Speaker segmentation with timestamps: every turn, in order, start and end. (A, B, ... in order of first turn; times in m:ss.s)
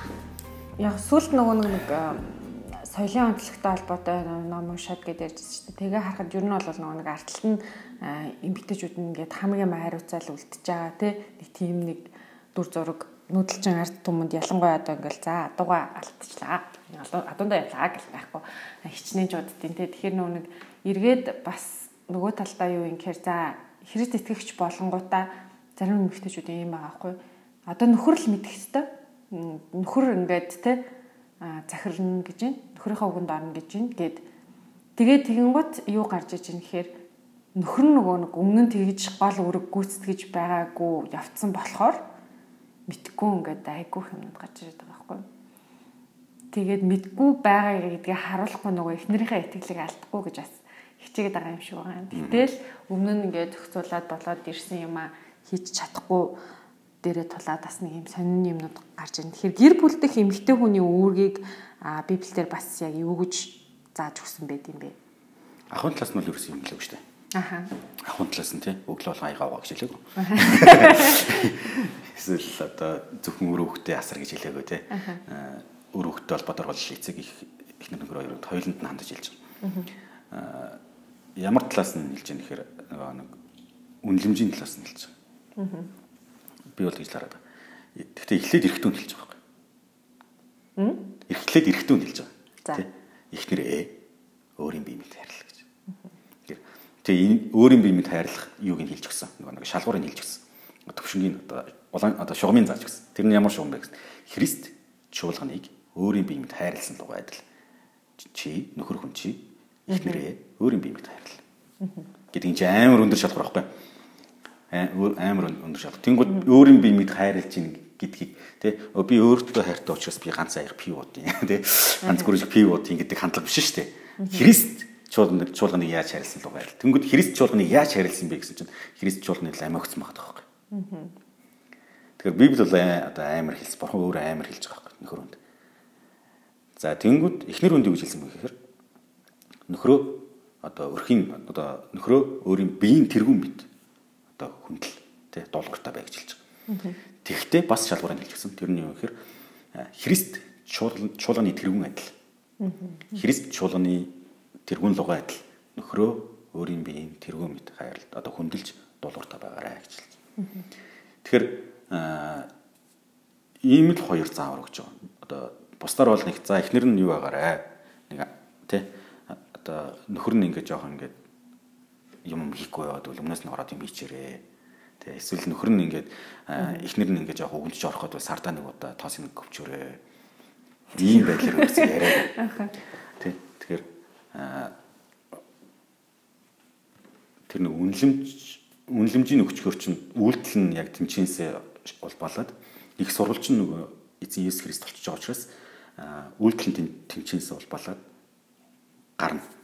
0:00.8-0:30.8 A
0:31.4-0:34.2 A
0:35.0-0:36.9 A
0:37.6-0:42.0 A
0:42.9-0:45.2 A
0:46.5-0:56.4 A
0:52.1-0:52.5 B
0:57.0-1:04.9 A
1:05.7-1:07.0 B
1:07.4-1:07.7 A
1:08.0-1:19.4 B
1:10.2-1:11.4 A
1:14.9-1:15.2 A
1:19.6-1:19.9 A
1:20.3-1:20.8 B
1:21.4-1:23.3 B
1:24.0-1:25.1 B
1:25.6-1:25.9 A
1:26.7-1:27.4 B
1:27.9-1:29.4 B
1:30.8-1:31.1 A
1:31.3-1:34.0 B
1:34.6-1:35.6 B
1:36.4-1:47.4 B
1:48.2-1:51.4 B
1:49.9-1:50.2 A
1:51.8-1:52.0 A
1:52.3-1:53.7 B
1:54.7-2:10.4 B
2:02.0-2:02.3 A
2:04.2-2:04.4 A
2:10.7-2:11.1 A
2:12.2-2:15.4 B
2:16.8-2:18.6 B
2:19.7-2:23.7 B
2:24.3-2:26.4 B
2:26.7-2:27.0 A
2:27.2-2:29.1 B
2:29.7-2:32.1 B
2:32.6-2:33.2 A
2:33.1-2:34.1 B
2:34.6-2:40.2 B
2:40.4-2:40.6 A
2:41.2-2:42.5 B
2:43.6-2:51.2 B
2:52.2-2:54.4 B
2:55.0-3:00.0 B
2:56.6-2:56.8 A
3:00.9-3:02.4 B
3:01.0-3:02.7 A
3:03.2-3:04.7 B
3:07.5-3:18.0 B
3:19.2-3:19.4 B